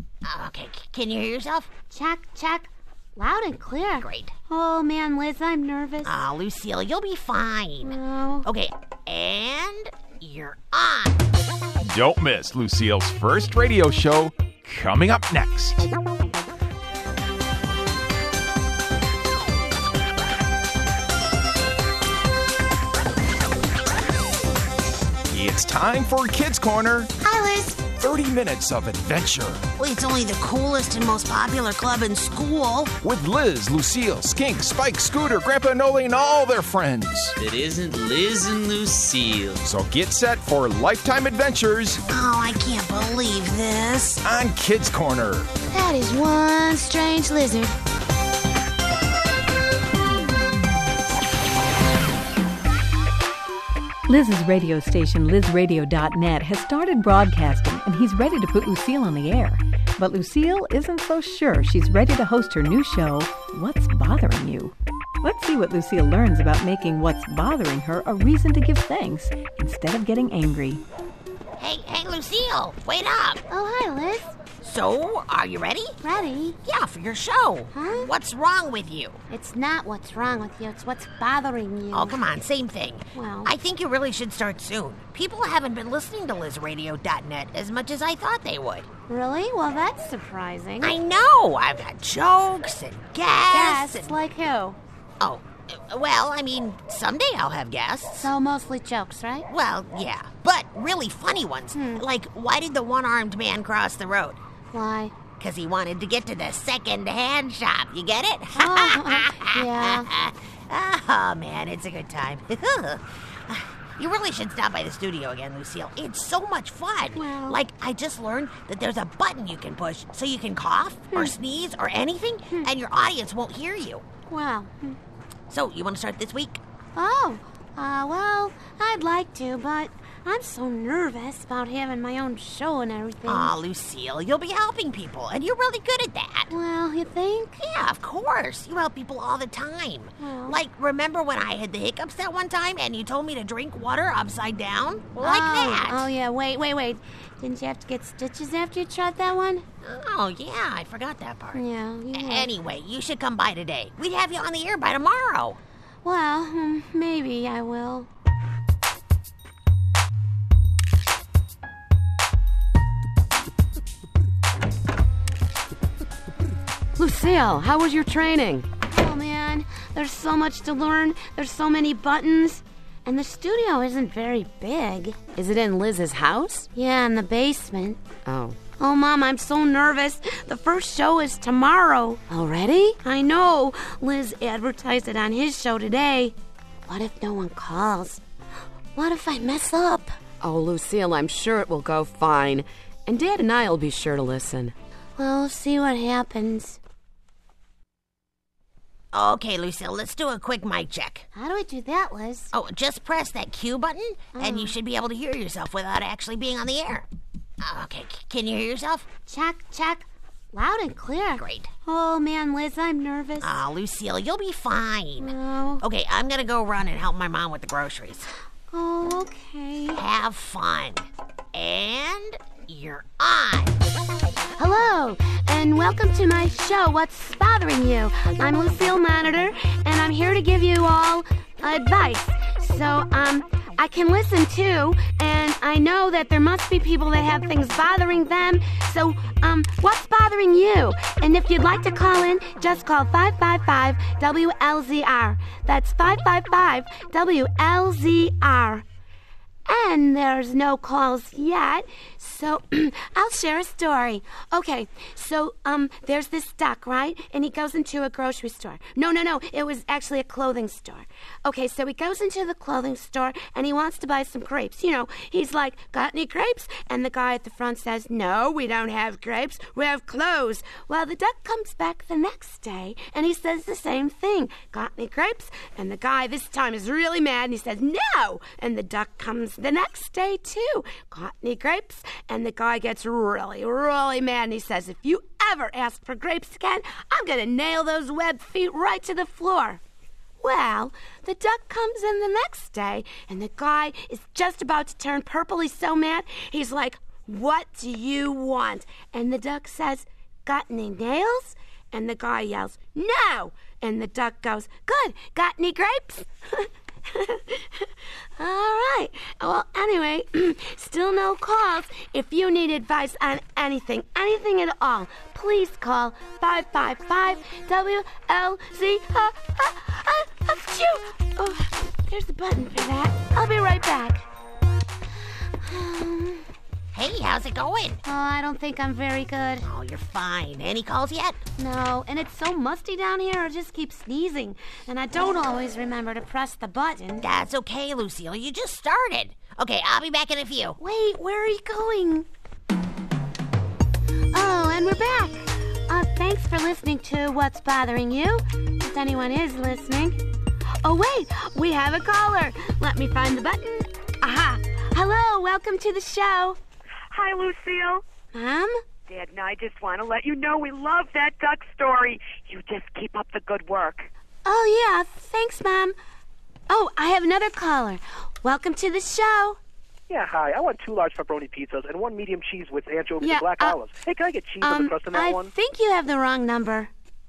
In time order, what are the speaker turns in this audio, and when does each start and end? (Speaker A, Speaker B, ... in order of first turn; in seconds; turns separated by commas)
Speaker A: 0.2-1.7, Speaker B: 1.9-6.1, Speaker A: 4.0-4.3, Speaker A: 6.0-11.2, Speaker B: 7.8-8.5, Speaker C: 11.8-15.8, Speaker C: 25.3-27.1, Speaker B: 27.2-27.8, Speaker C: 27.9-29.6, Speaker A: 29.8-32.9, Speaker C: 33.0-37.3, Speaker D: 37.4-39.6, Speaker C: 39.6-42.0, Speaker A: 42.1-44.2, Speaker C: 44.2-45.5, Speaker B: 45.7-47.8, Speaker E: 54.1-70.8, Speaker A: 71.6-73.4, Speaker B: 73.5-74.3, Speaker A: 74.6-76.0, Speaker B: 76.0-76.6, Speaker A: 76.6-79.2, Speaker B: 77.7-78.1, Speaker B: 79.3-82.2, Speaker A: 81.9-88.9, Speaker B: 83.1-83.5, Speaker B: 89.1-91.0, Speaker A: 90.8-94.2, Speaker B: 93.5-94.8, Speaker A: 95.2-98.3, Speaker B: 98.2-99.5, Speaker A: 99.5-104.4, Speaker B: 101.7-102.0, Speaker B: 104.7-105.1, Speaker A: 105.4-124.0, Speaker B: 108.5-110.1, Speaker B: 117.1-117.6, Speaker B: 121.1-121.3, Speaker B: 124.3-125.0, Speaker A: 125.5-126.6, Speaker B: 127.0-133.6, Speaker A: 133.2-136.5, Speaker B: 136.5-137.6, Speaker A: 137.6-146.1, Speaker B: 140.2-140.6, Speaker B: 145.2-149.6, Speaker A: 149.8-155.6, Speaker B: 151.5-152.5, Speaker B: 156.0-158.1, Speaker F: 167.0-168.7, Speaker B: 168.9-175.2, Speaker F: 175.3-176.7, Speaker B: 176.7-178.0, Speaker F: 178.2-178.6, Speaker B: 178.8-186.3, Speaker B: 186.9-188.2, Speaker B: 188.9-190.1, Speaker F: 190.4-194.7, Speaker B: 195.2-196.8, Speaker A: 199.1-201.2, Speaker B: 201.3-202.5, Speaker A: 202.5-207.1, Speaker B: 204.3-204.8, Speaker A: 207.6-209.1, Speaker B: 209.3-213.5, Speaker A: 211.3-211.7, Speaker A: 213.4-218.3, Speaker B: 215.2-215.8, Speaker B: 218.7-220.0, Speaker A: 219.9-223.7, Speaker B: 224.6-248.8, Speaker B: 249.7-289.8, Speaker B: 290.4-324.2, Speaker B: 325.6-326.4, Speaker A: 326.9-328.0, Speaker B: 328.0-329.7, Speaker A: 329.6-331.4, Speaker B: 331.6-337.2, Speaker A: 337.2-340.8, Speaker B: 340.8-342.2, Speaker B: 344.3-350.2, Speaker B: 350.8-356.6, Speaker G: 357.1-358.0, Speaker B: 358.3-358.8, Speaker G: 359.1-364.1, Speaker B: 364.4-365.9, Speaker B: 366.7-369.6, Speaker H: 370.1-375.5, Speaker B: 373.2-373.8, Speaker B: 374.6-376.9